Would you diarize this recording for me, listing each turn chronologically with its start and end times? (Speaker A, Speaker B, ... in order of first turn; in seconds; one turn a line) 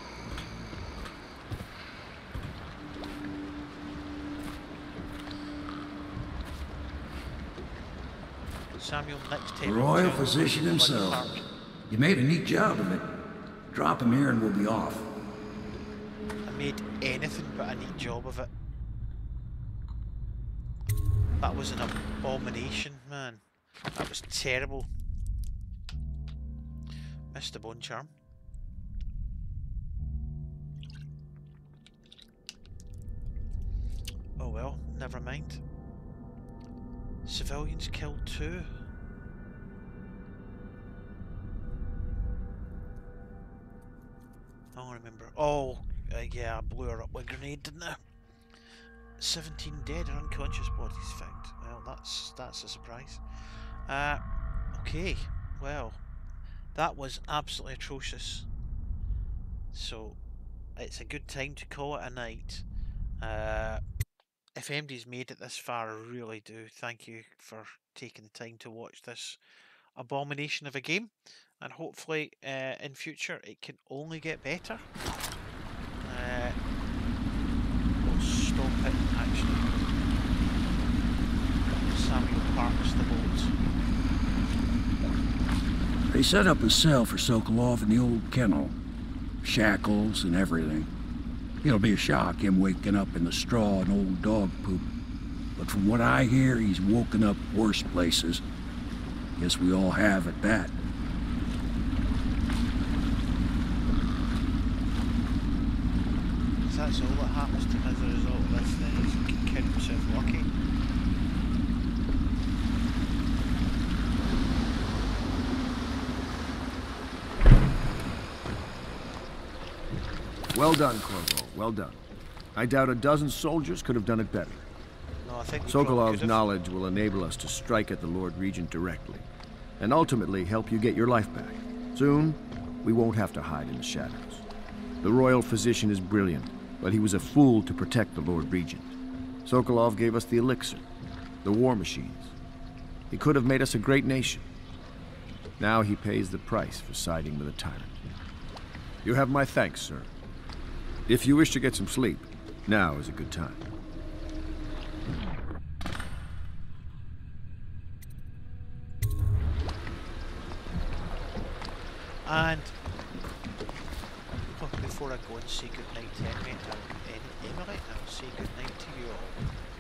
Speaker A: 8.7-11.4
Speaker B: 9.6-11.3
Speaker B: 11.9-13.1
Speaker B: 13.7-15.1
Speaker A: 16.4-18.5
Speaker A: 21.4-24.9
Speaker A: 27.3-28.1
Speaker A: 34.4-35.6
Speaker A: 37.2-38.7
Speaker A: 44.7-48.0
Speaker A: 48.5-54.2
Speaker A: 54.7-56.0
Speaker A: 56.7-58.5
Speaker A: 59.7-60.2
Speaker A: 60.8-62.6
Speaker A: 63.2-63.8
Speaker A: 64.5-74.9
Speaker A: 76.0-76.5
Speaker A: 78.0-79.9
Speaker A: 81.8-83.6
Speaker B: 86.1-88.8
Speaker B: 89.4-90.9
Speaker B: 91.6-94.9
Speaker B: 95.5-98.4
Speaker B: 99.4-100.8
Speaker A: 106.6-110.5
Speaker C: 120.5-122.0
Speaker C: 122.5-124.7
Speaker A: 125.2-126.5
Speaker C: 125.7-129.3
Speaker C: 129.8-134.4
Speaker C: 135.0-140.8
Speaker C: 141.4-142.3
Speaker C: 143.1-144.5
Speaker C: 145.6-148.0
Speaker C: 149.0-150.1
Speaker C: 151.1-153.7
Speaker A: 162.2-162.8
Speaker A: 164.4-169.4